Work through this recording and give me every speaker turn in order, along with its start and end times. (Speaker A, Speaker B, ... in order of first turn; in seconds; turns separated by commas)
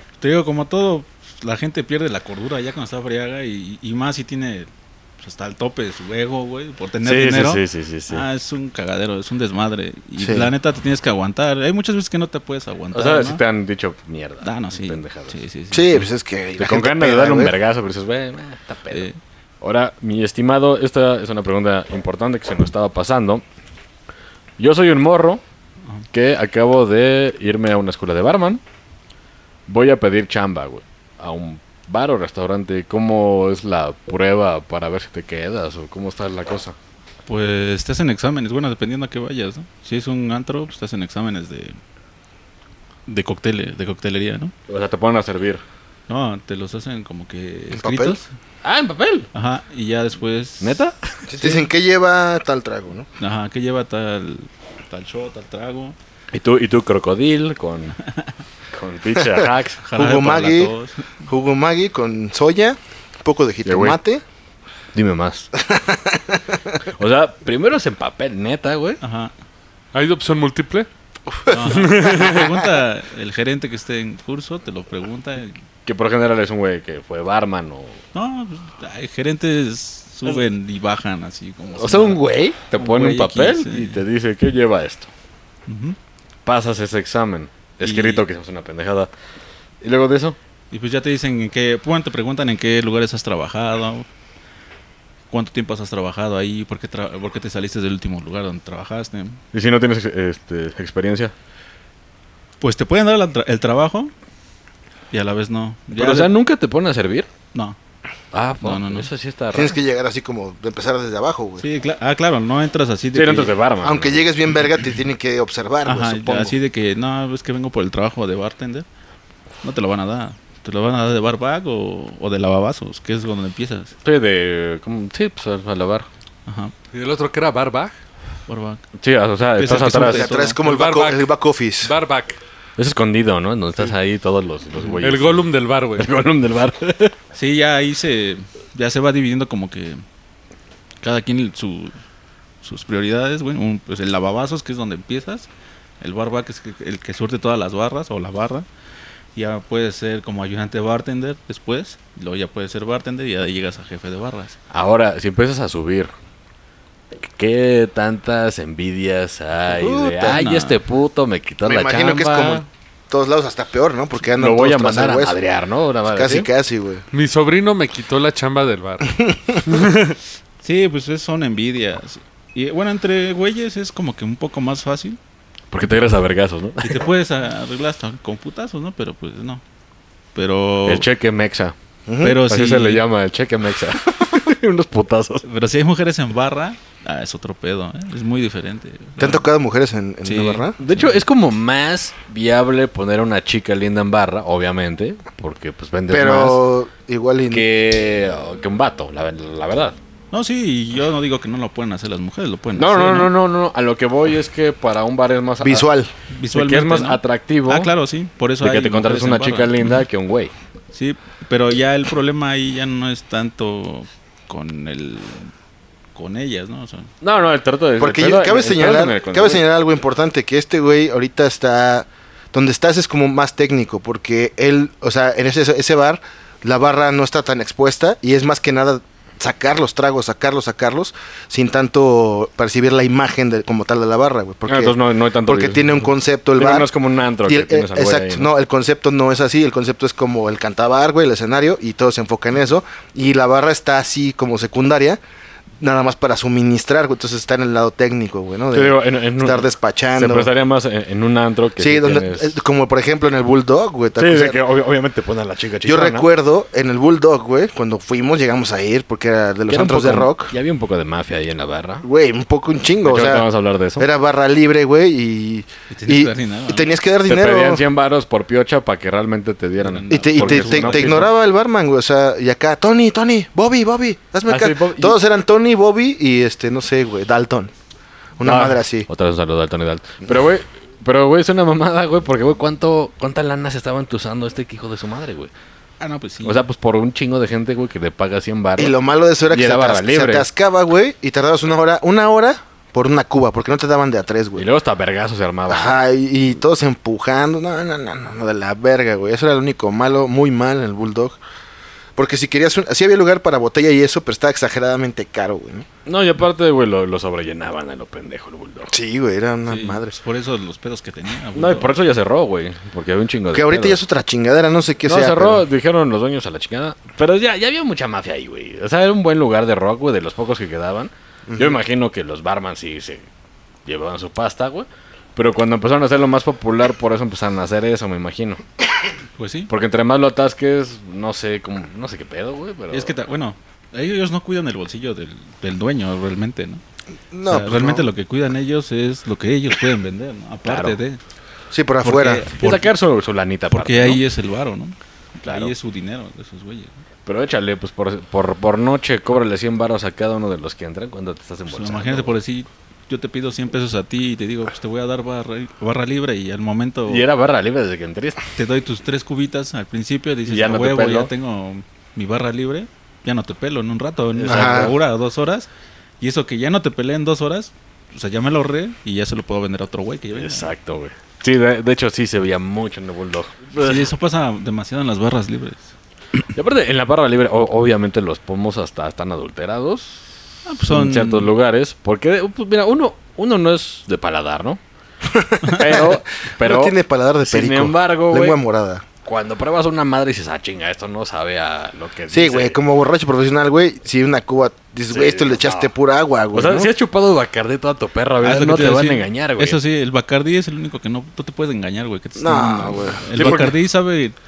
Speaker A: 0.2-13.4, Speaker B: 7.0-8.3, Speaker C: 10.2-10.5, Speaker B: 12.9-15.4, Speaker A: 14.4-16.1, Speaker C: 15.7-17.5, Speaker B: 16.6-19.1, Speaker A: 18.9-19.2, Speaker B: 19.6-23.4, Speaker B: 24.6-25.4, Speaker B: 26.1-28.6, Speaker B: 29.7-36.8, Speaker A: 37.3-41.8, Speaker A: 43.1-44.5, Speaker B: 44.7-45.6, Speaker A: 46.1-48.3, Speaker C: 47.7-48.2, Speaker B: 48.6-49.3, Speaker A: 49.3-50.8, Speaker B: 50.6-51.0, Speaker C: 51.3-53.1, Speaker A: 51.4-51.7, Speaker A: 53.2-56.0, Speaker B: 56.3-58.0, Speaker A: 58.0-58.4, Speaker B: 58.7-59.8, Speaker A: 59.8-61.1, Speaker C: 60.0-60.7, Speaker C: 61.3-64.2, Speaker B: 63.6-64.0, Speaker B: 64.9-65.5, Speaker C: 65.7-66.4, Speaker B: 66.9-69.0, Speaker A: 69.0-69.3, Speaker D: 69.9-70.9, Speaker C: 71.3-72.6, Speaker A: 71.5-75.6, Speaker D: 71.7-72.3, Speaker B: 75.8-78.0, Speaker A: 78.1-82.2, Speaker B: 81.8-85.1, Speaker A: 82.8-84.0, Speaker A: 85.7-86.0, Speaker B: 86.5-89.1, Speaker A: 87.8-88.3, Speaker B: 89.8-90.4, Speaker A: 90.7-94.1, Speaker A: 95.3-99.4, Speaker B: 99.5-101.3, Speaker A: 102.6-104.1, Speaker A: 105.1-106.3, Speaker B: 105.9-107.3, Speaker B: 108.3-109.8, Speaker A: 108.6-109.1, Speaker C: 109.5-111.6, Speaker A: 111.6-113.6, Speaker B: 113.1-114.2, Speaker C: 113.8-116.6, Speaker A: 115.8-118.9, Speaker A: 119.6-124.0, Speaker B: 124.0-126.1, Speaker A: 126.5-126.7, Speaker D: 126.9-127.9, Speaker A: 128.5-128.8, Speaker B: 129.0-130.4, Speaker A: 129.6-130.6, Speaker C: 129.7-131.9, Speaker D: 130.6-131.3, Speaker D: 131.8-132.4, Speaker B: 132.8-137.2, Speaker D: 135.0-136.1, Speaker A: 137.3-140.0, Speaker A: 141.0-141.9, Speaker A: 142.6-145.5, Speaker A: 146.0-148.7, Speaker A: 149.3-154.6, Speaker B: 154.7-156.1, Speaker B: 157.2-162.7, Speaker C: 159.8-160.4, Speaker A: 160.1-160.8, Speaker C: 161.7-165.4, Speaker B: 164.4-166.5, Speaker C: 166.1-167.1, Speaker D: 167.1-170.2, Speaker C: 169.2-169.6, Speaker A: 170.6-175.2, Speaker B: 175.7-177.1, Speaker A: 176.8-179.6, Speaker A: 180.3-181.1, Speaker B: 180.8-181.8, Speaker C: 182.1-182.4, Speaker A: 182.2-183.1, Speaker B: 182.3-185.4, Speaker A: 185.4-189.5, Speaker C: 189.2-190.8, Speaker A: 190.2-191.2, Speaker B: 190.8-196.6, Speaker C: 196.1-197.7, Speaker B: 197.5-200.0, Speaker A: 200.3-203.3, Speaker B: 202.8-205.9, Speaker C: 205.6-206.1, Speaker A: 206.3-210.0, Speaker B: 206.5-207.9, Speaker B: 208.6-210.5, Speaker A: 210.9-215.5, Speaker A: 216.2-217.1, Speaker B: 217.2-219.6, Speaker C: 218.0-236.9, Speaker B: 234.7-238.5, Speaker C: 237.4-245.2, Speaker C: 245.8-250.5, Speaker B: 248.7-252.6, Speaker C: 251.8-254.6, Speaker B: 254.2-256.3, Speaker C: 255.8-260.5, Speaker B: 259.7-262.1, Speaker C: 262.0-267.8, Speaker B: 263.0-264.1, Speaker A: 265.9-266.9, Speaker B: 267.3-271.3, Speaker A: 269.8-271.3, Speaker C: 270.1-277.7, Speaker B: 274.5-275.2, Speaker C: 278.4-279.1, Speaker B: 278.4-285.5, Speaker A: 286.0-286.6, Speaker B: 286.4-288.9, Speaker C: 288.8-294.7, Speaker B: 289.5-290.5, Speaker B: 294.6-296.0, Speaker C: 295.7-301.4, Speaker C: 302.2-305.9, Speaker B: 306.1-308.9, Speaker C: 308.9-310.2, Speaker A: 309.7-312.0, Speaker B: 311.6-314.0, Speaker C: 313.5-315.6, Speaker B: 315.0-323.3, Speaker C: 321.5-321.8, Speaker B: 323.9-328.6, Speaker A: 329.4-329.7, Speaker B: 329.7-333.1, Speaker A: 332.9-336.8, Speaker C: 337.3-338.1, Speaker A: 337.4-341.2, Speaker B: 340.6-341.0, Speaker C: 341.7-342.5, Speaker A: 342.0-342.9, Speaker B: 342.6-344.2, Speaker A: 343.7-347.0, Speaker B: 345.4-345.7, Speaker B: 347.3-352.4, Speaker A: 351.7-357.3, Speaker B: 357.1-358.4, Speaker A: 358.6-365.7, Speaker B: 360.5-361.3, Speaker B: 364.4-364.9, Speaker C: 364.5-364.9, Speaker A: 366.2-370.7, Speaker B: 370.3-374.1, Speaker A: 373.8-375.9, Speaker B: 376.6-380.2, Speaker A: 380.7-381.5, Speaker B: 380.9-384.8, Speaker C: 385.3-389.1, Speaker B: 385.7-388.6, Speaker B: 389.2-392.8, Speaker C: 392.3-396.9, Speaker B: 395.1-395.9, Speaker B: 396.5-399.8, Speaker A: 398.4-404.4, Speaker C: 402.4-403.7, Speaker B: 403.4-403.7